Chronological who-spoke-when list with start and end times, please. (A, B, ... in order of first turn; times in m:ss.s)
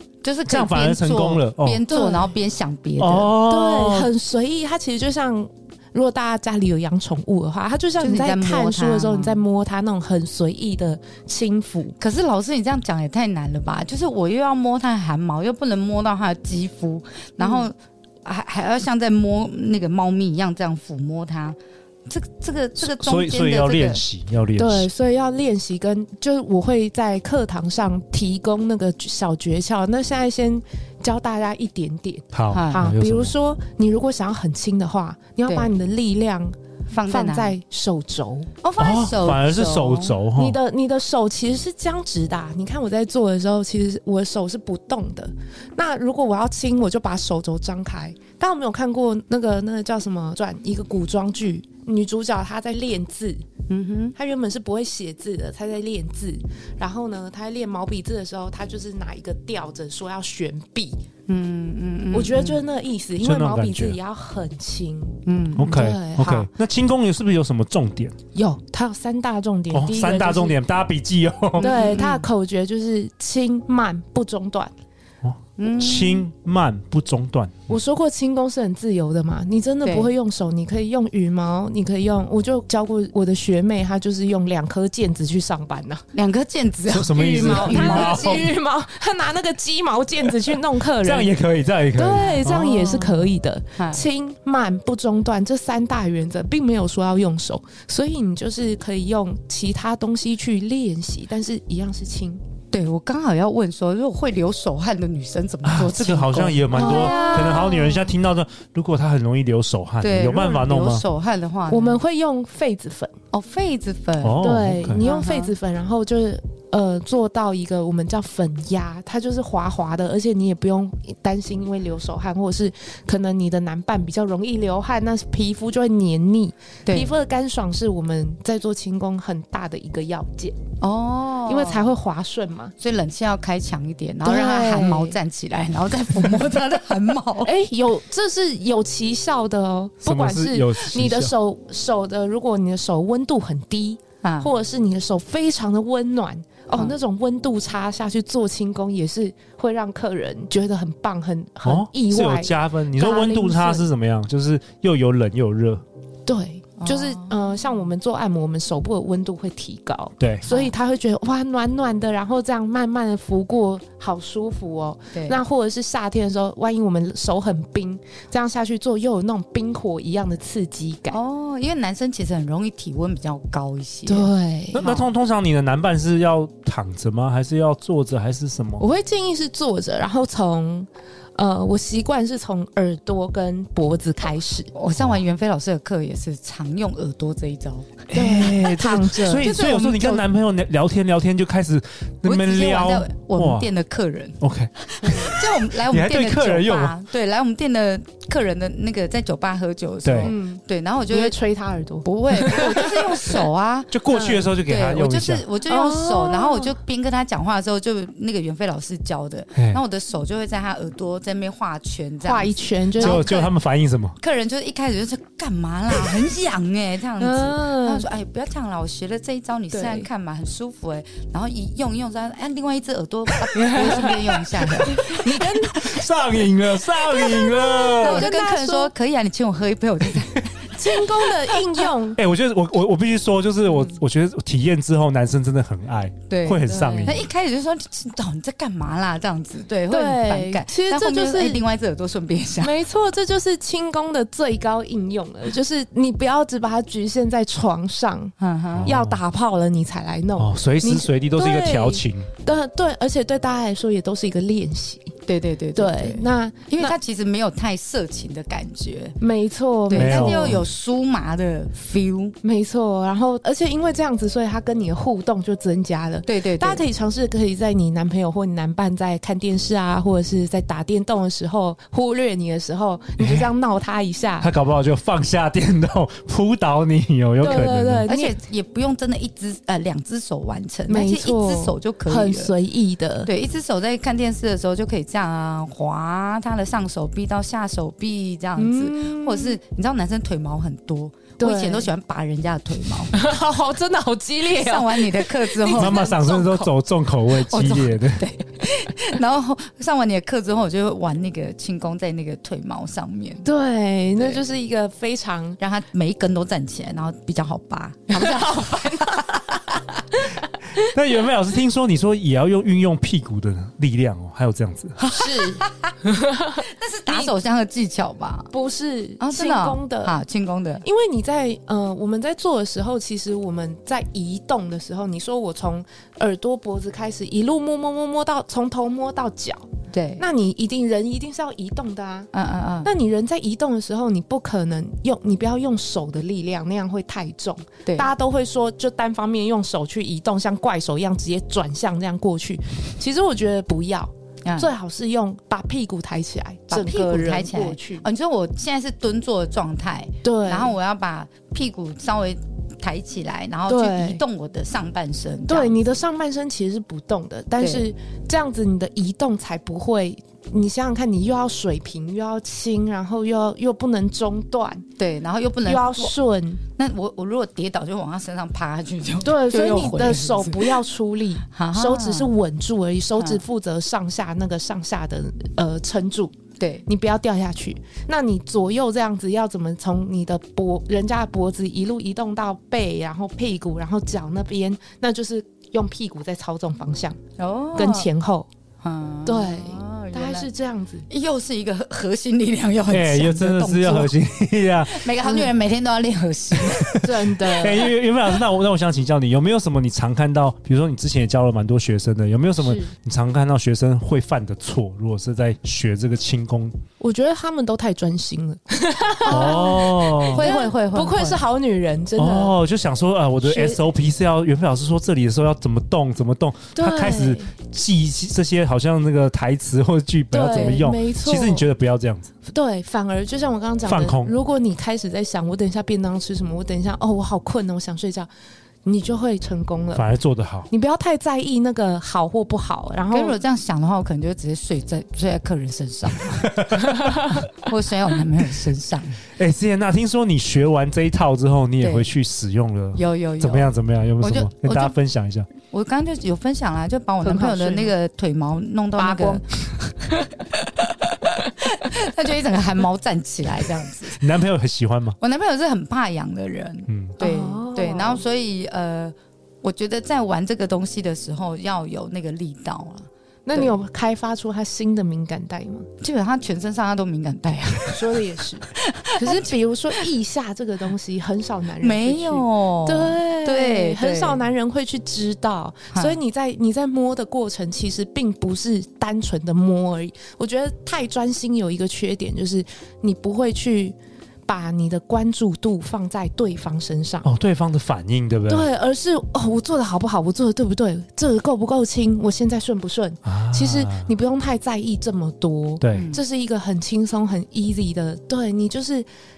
0:00.2-0:03.4 A
0:00.5-0:01.8 B
0:01.9-0:02.4 C
0:03.0-0:04.1 B
0:03.4-0:12.0 C
0:08.0-0:09.4 A
0:12.0-0:24.0 A
0:17.4-0:17.7 C
0:22.8-0:24.9 B
0:24.6-0:38.5 C
0:32.3-0:33.3 B
0:32.5-0:32.9 A
0:35.5-0:35.7 A
0:36.9-0:37.6 A
0:38.6-0:40.2 A
0:38.8-0:40.6 B
0:40.4-0:53.4 C
0:53.7-0:54.2 A
0:54.2-1:01.0 C
1:01.3-1:02.6 A
1:02.1-1:06.5 C
1:03.2-1:04.0 B
1:05.3-1:05.9 A
1:05.6-1:08.1 B
1:08.4-1:10.6 C
1:09.7-1:11.8 B
1:11.6-1:12.3 A
1:11.6-1:14.7 C
1:15.2-1:17.7 B
1:15.6-1:16.3 A
1:17.7-1:26.0 C
1:19.8-1:20.1 A
1:26.1-1:28.5 A
1:26.9-1:28.5 B
1:27.1-1:31.3 C
1:31.0-1:33.3 B
1:31.9-1:42.4 C
1:33.8-1:34.0 A
1:42.7-1:47.7 A
1:45.6-1:51.0 B
1:46.7-1:48.1 C
1:50.0-1:52.0 A
1:51.7-1:53.1 C
1:53.3-1:55.6 A
1:54.2-1:55.0 B
1:54.4-2:10.6 C
2:06.9-2:07.1 A
2:10.8-2:11.9 A
2:11.5-2:12.7 C
2:12.8-2:17.5 A
2:14.2-2:15.2 C
2:17.4-2:33.8 C
2:20.0-2:21.3 B
2:24.2-2:24.5 A
2:31.6-2:35.8 B
2:36.3-2:51.2 C
2:36.8-2:37.5 A
2:40.2-2:40.4 B
2:40.5-2:40.7 A
2:45.1-2:45.4 A
2:51.1-2:55.1 A
2:54.1-2:54.9 C
2:54.7-2:58.8 B
2:58.8-3:04.7 C
3:04.8-3:07.9 A
3:05.0-3:05.2 B
3:08.1-3:13.7 B
3:08.1-3:09.7 C
3:09.3-3:10.3 A
3:12.2-3:21.4 A
3:14.4-3:15.2 B
3:15.0-3:15.3 C
3:15.8-3:17.0 B
3:20.0-3:20.3 B
3:20.2-3:23.1 C
3:22.0-3:23.9 A
3:23.9-3:25.4 B
3:24.1-3:24.5 C
3:24.6-3:33.5 A
3:25.7-3:26.7 C
3:29.6-3:29.8 B
3:32.2-3:33.3 C
3:33.0-3:34.2 B
3:34.2-3:45.4 A
3:37.2-3:38.1 C
3:39.7-3:40.1 C
3:43.6-3:46.1 C
3:45.7-3:48.3 B
3:47.0-3:48.9 C
3:48.0-3:51.7 A
3:50.7-3:52.2 C
3:52.2-3:57.2 B
3:56.3-4:02.8 A
3:56.6-3:57.2 C
3:59.9-4:01.6 C
4:02.6-4:08.3 C
4:08.4-4:08.9 A
4:08.8-4:09.2 B
4:08.8-4:15.1 C
4:10.4-4:12.3 B
4:15.3-4:19.2 A
4:15.8-4:17.0 C
4:19.2-4:20.6 C
4:19.9-4:22.4 A
4:19.9-4:20.6 B
4:22.4-4:34.5 C
4:26.3-4:26.8 A
4:33.2-4:33.5 B
4:34.4-4:38.1 B
4:37.4-4:38.4 C
4:37.4-4:42.5 A
4:40.9-4:43.3 C
4:43.2-4:53.1 A
4:48.6-4:49.6 C
4:51.4-4:51.9 C
4:53.1-4:56.6 C
4:54.5-4:56.7 A
4:55.8-4:58.2 B
4:57.3-5:03.5 A
5:03.4-5:05.6 C
5:05.6-5:09.6 A
5:08.1-5:09.4 C
5:10.8-5:15.0 B
5:15.0-5:16.0 A
5:15.1-5:17.3 C
5:16.6-5:18.5 A
5:18.5-5:20.2 C
5:19.2-5:20.8 A
5:20.8-5:29.6 C
5:29.9-5:30.2 A
5:30.2-5:32.3 C
5:32.3-5:32.9 A
5:32.8-5:48.1 C
5:37.9-5:38.1 A
5:44.4-5:44.7 A
5:46.7-5:55.8 A
5:50.2-5:50.8 C
5:53.7-5:54.2 C
5:55.5-6:04.8 C
5:57.6-5:57.9 A
6:05.0-6:06.2 A
6:05.6-6:06.6 C
6:06.8-6:10.8 A
6:09.2-6:16.3 C
6:11.5-6:12.3 A
6:13.2-6:13.4 A
6:16.6-6:16.9 A
6:16.9-6:27.2 C
6:27.4-6:28.1 A
6:27.8-6:28.5 C
6:28.8-6:30.5 A
6:29.2-6:31.1 C
6:31.1-6:34.1 A
6:32.9-6:35.0 B
6:34.9-6:37.1 A
6:35.2-6:35.5 C
6:36.6-6:46.8 B
6:37.0-6:38.0 C
6:42.6-6:42.9 C
6:47.0-6:52.6 C
6:49.3-6:51.4 A
6:49.3-6:50.5 B
6:52.2-7:02.3 B
6:53.4-6:53.8 C
6:56.8-6:57.5 C
7:00.3-7:01.7 C
7:00.5-7:00.8 A
7:02.5-7:08.3 C
7:03.8-7:04.3 B
7:08.8-7:10.1 C
7:10.0-7:10.7 B
7:10.7-7:13.4 C
7:13.1-7:19.2 A
7:16.6-7:16.8 B
7:19.4-7:25.5 B
7:21.8-7:22.1 A
7:23.0-7:25.0 A
7:25.6-7:34.2 A
7:27.2-7:27.9 C
7:29.0-7:29.4 C
7:34.2-7:35.2 B
7:35.2-7:43.8 A
7:36.9-7:37.2 B
7:37.2-7:38.2 C
7:43.5-7:45.9 C
7:46.0-7:50.0 A
7:47.9-8:04.0 C
7:51.8-7:54.4 A
7:55.9-7:56.2 A
8:04.5-8:07.3 C
8:07.2-8:08.7 B
8:08.5-8:19.1 C
8:13.2-8:14.1 B
8:15.8-8:16.1 B
8:15.9-8:16.2 A